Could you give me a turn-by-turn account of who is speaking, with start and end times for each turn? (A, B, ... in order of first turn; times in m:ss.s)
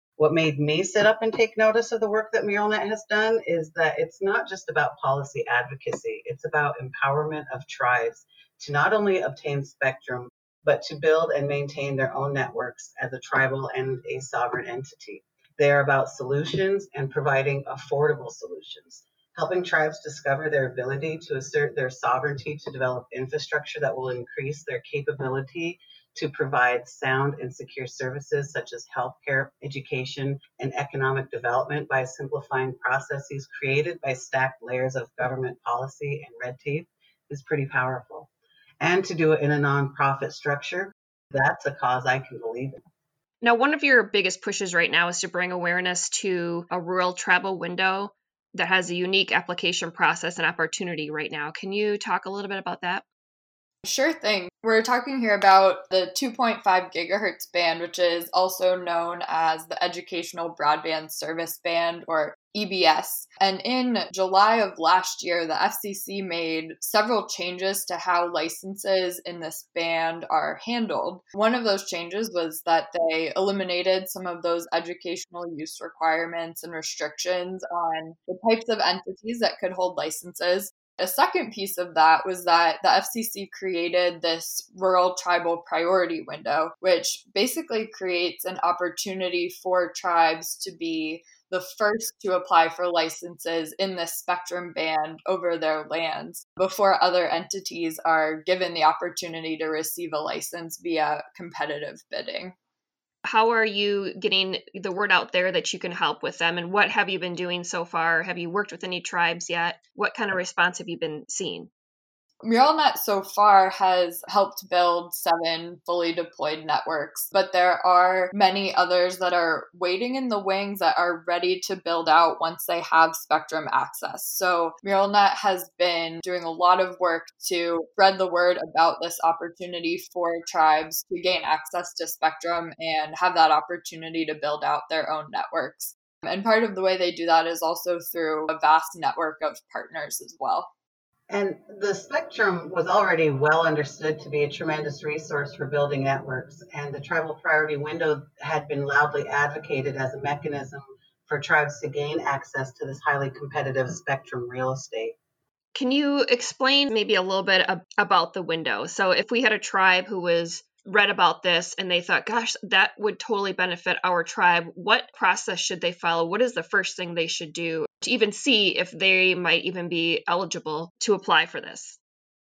0:00.2-0:38.3 A
0:38.8-0:42.8 A
0:43.4-0:53.0 B
0:53.8-1:42.5 C
1:43.2-1:51.7 B
1:52.4-2:20.7 C
2:21.3-2:35.2 A
2:35.7-2:52.0 B